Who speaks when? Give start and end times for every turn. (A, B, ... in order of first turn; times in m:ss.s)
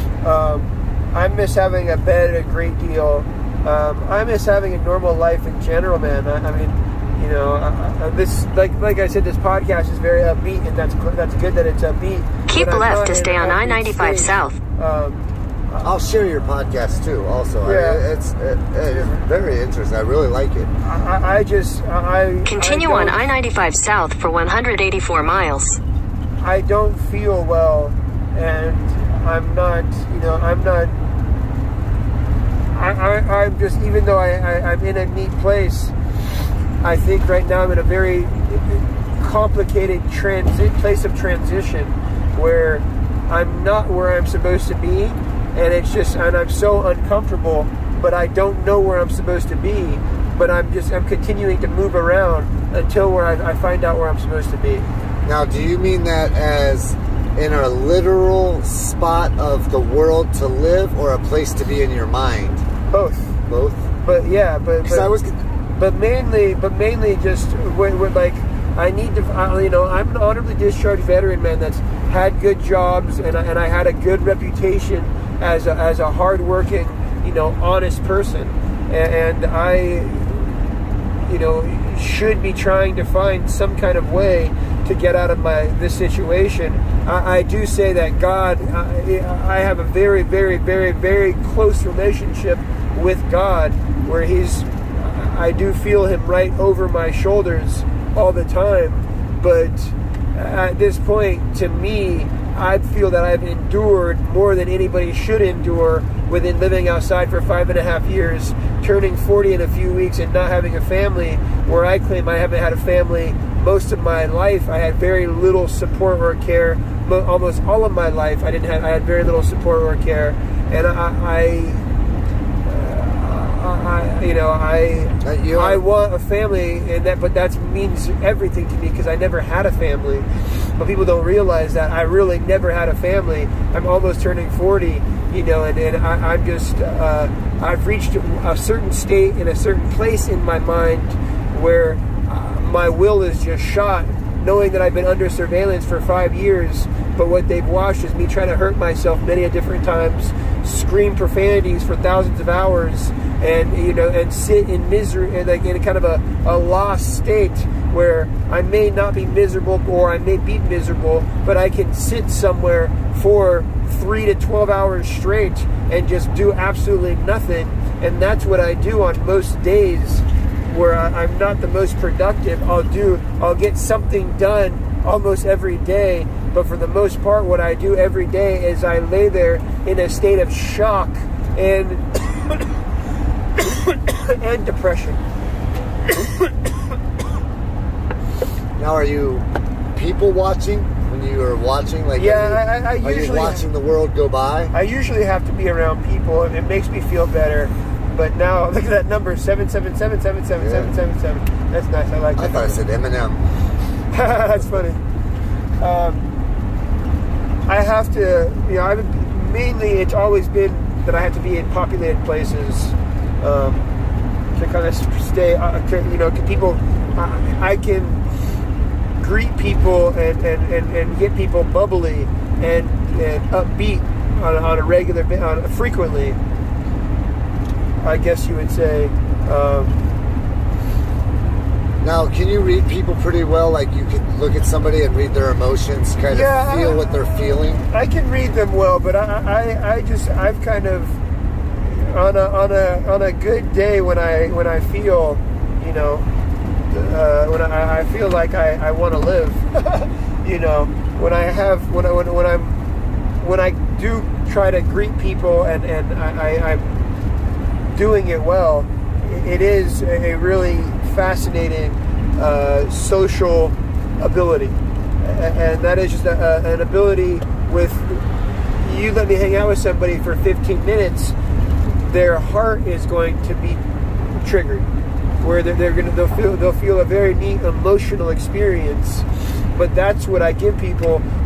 0:00.2-0:15.8 A
0:12.5-0:14.6 B
0:15.8-0:20.7 C
0:17.6-0:18.0 A
0:18.9-0:19.2 A
0:20.8-0:23.3 A
0:22.5-0:25.8 B
0:26.4-0:31.0 A
0:32.7-0:35.9 A
0:36.8-0:54.9 A
0:55.2-1:02.6 C
1:02.9-1:03.4 A
1:03.5-1:03.9 C
1:04.0-1:05.1 A
1:04.8-1:05.4 C
1:05.7-1:20.6 A
1:21.3-2:01.9 A
2:02.7-2:10.3 A
2:05.2-2:05.8 C
2:10.8-3:02.7 A
3:03.6-3:05.2 A
3:08.8-3:14.7 C
3:12.2-3:13.7 A
3:14.7-3:22.8 A
3:20.6-3:20.9 C
3:22.4-3:23.4 C
3:24.1-3:25.0 A
3:25.8-3:26.3 A
3:27.7-3:33.9 A
3:34.6-3:38.3 A
3:39.2-3:46.4 A
3:48.0-3:50.0 A
3:52.0-3:57.8 C
3:56.3-4:01.2 A
4:01.8-4:06.3 A
4:06.9-4:12.8 A
4:13.4-4:17.0 A
4:17.9-4:28.3 A
4:28.8-4:31.4 A
4:32.0-4:34.9 A
4:35.4-4:41.2 A